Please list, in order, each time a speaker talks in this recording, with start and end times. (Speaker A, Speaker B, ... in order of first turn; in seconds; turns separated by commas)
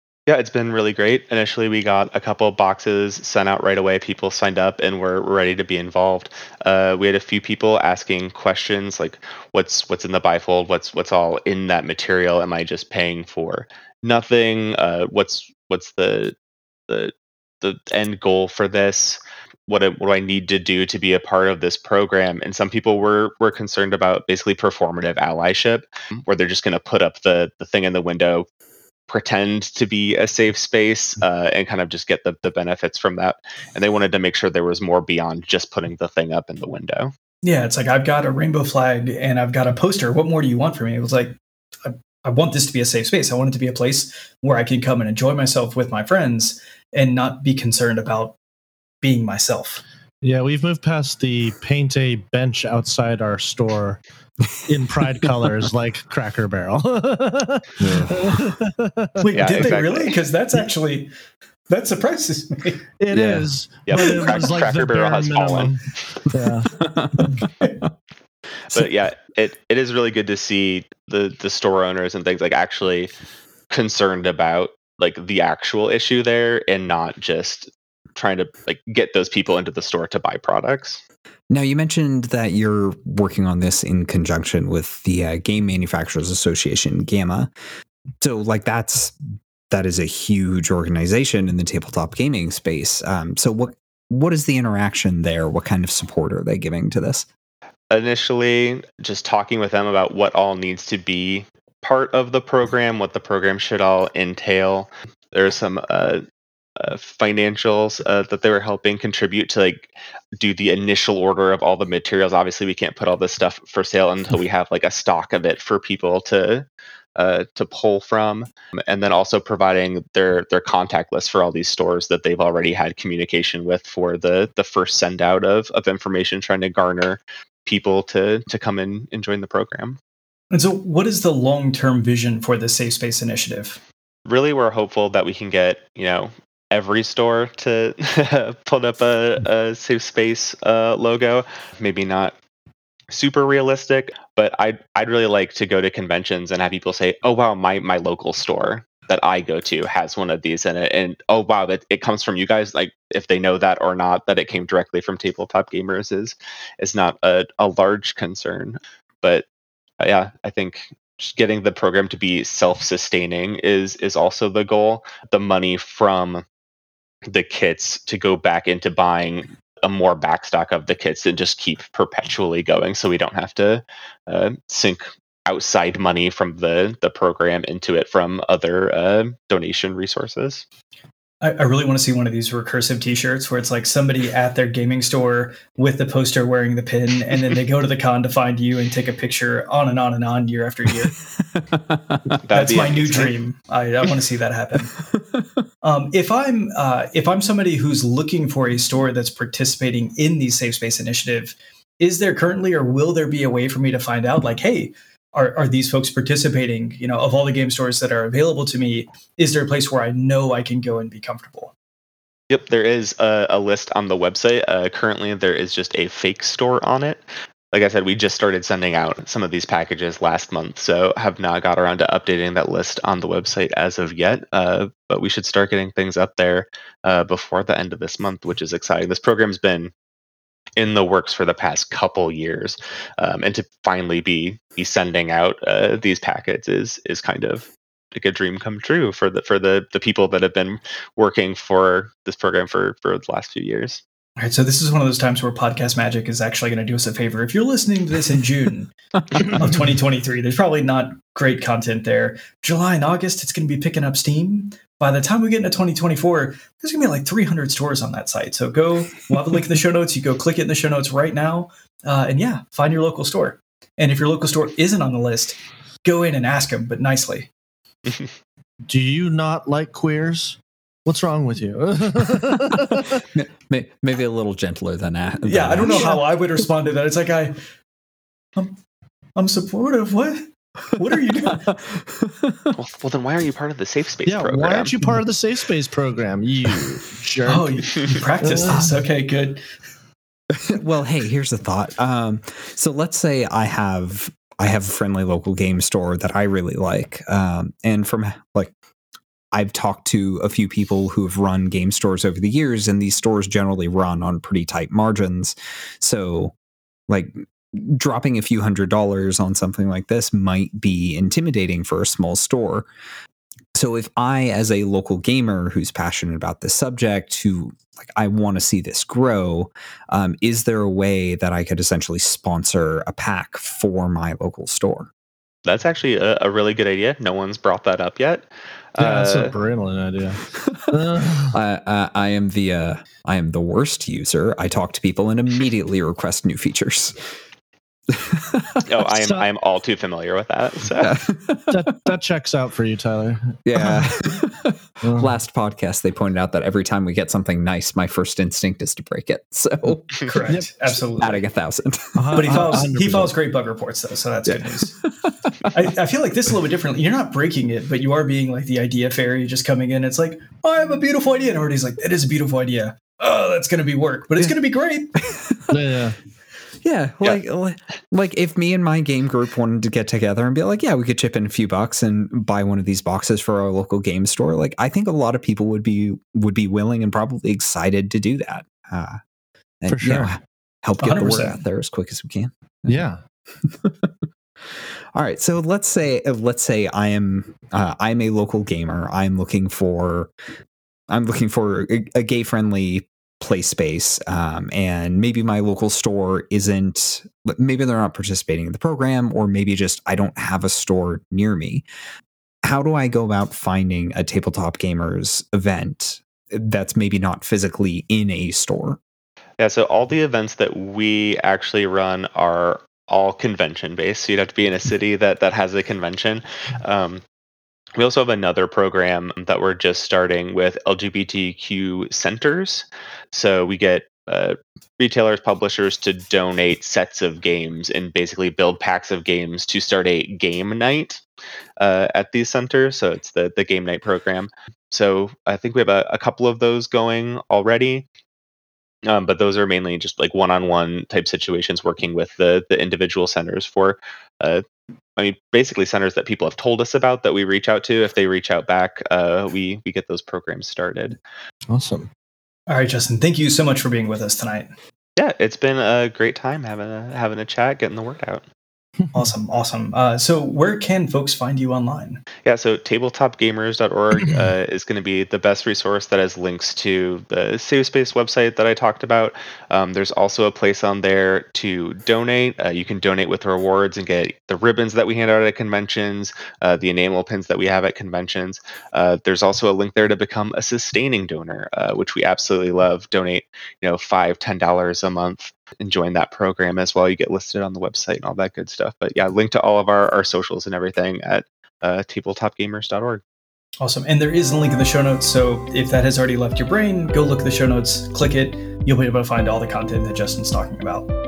Speaker A: 0.3-16.3, Speaker A: 16.9-28.5, Speaker A: 29.1-37.1, Speaker B: 37.4-48.4, Speaker B: 49.0-49.8, Speaker C: 50.2-54.0, Speaker C: 54.6-59.1, Speaker D: 57.8-58.4, Speaker B: 59.2-61.1, Speaker A: 59.3-60.2, Speaker B: 61.7-62.8, Speaker C: 63.0-66.7, Speaker D: 63.1-63.5, Speaker A: 63.9-65.7, Speaker B: 63.9-64.5, Speaker D: 66.8-67.8, Speaker A: 68.7-73.1, Speaker A: 73.7-81.0, Speaker D: 81.5-87.5, Speaker D: 88.2-89.1, Speaker D: 89.7-97.2, Speaker A: 97.9-106.2, Speaker A: 106.8-130.0, Speaker B: 130.5-133.8, Speaker A: 134.2-142.4, Speaker A: 143.1-159.4, Speaker A: 160.0-166.4, Speaker A: 167.3-180.6, Speaker B: 181.4-191.1, Speaker D: 191.6-192.2, Speaker A: 192.4-193.3, Speaker B: 192.4-194.9, Speaker B: 195.8-211.7, Speaker A: 212.5-229.9, Speaker A: 230.8-244.0, Speaker B: 244.4-267.5, Speaker C: 268.9-273.2, Speaker D: 273.3-276.2, Speaker B: 275.4-277.6, Speaker B: 279.4-281.6, Speaker D: 281.5-282.7, Speaker A: 282.7-284.9, Speaker C: 284.2-287.7, Speaker B: 287.4-289.6, Speaker C: 288.4-288.9, Speaker D: 290.6-298.7, Speaker D: 299.5-306.5, Speaker D: 307.1-312.9, Speaker D: 313.7-325.1, Speaker A: 325.6-329.5, Speaker C: 329.0-331.5, Speaker D: 331.5-337.2, Speaker D: 338.1-338.8, Speaker A: 338.8-341.1, Speaker C: 339.1-339.4, Speaker D: 341.0-341.8, Speaker C: 341.7-344.0, Speaker D: 343.6-350.3, Speaker C: 345.0-345.3, Speaker B: 350.2-351.4, Speaker D: 350.9-352.8, Speaker C: 352.1-353.3, Speaker B: 352.3-354.9, Speaker D: 354.5-355.7, Speaker B: 355.7-365.1, Speaker D: 365.3-365.6, Speaker C: 365.7-366.2, Speaker D: 366.8-379.2, Speaker D: 379.8-383.1, Speaker C: 379.9-380.3, Speaker B: 381.0-381.6, Speaker C: 382.9-383.2, Speaker D: 383.6-384.1, Speaker D: 385.1-390.3, Speaker D: 391.1-401.9, Speaker D: 402.6-409.0, Speaker A: 409.6-417.2, Speaker A: 418.0-431.2, Speaker A: 431.8-438.1, Speaker A: 439.1-444.6, Speaker A: 445.2-451.2, Speaker C: 451.7-452.1, Speaker B: 452.7-454.7, Speaker A: 455.2-458.4, Speaker B: 459.1-462.2, Speaker A: 462.4-493.2, Speaker B: 493.8-501.1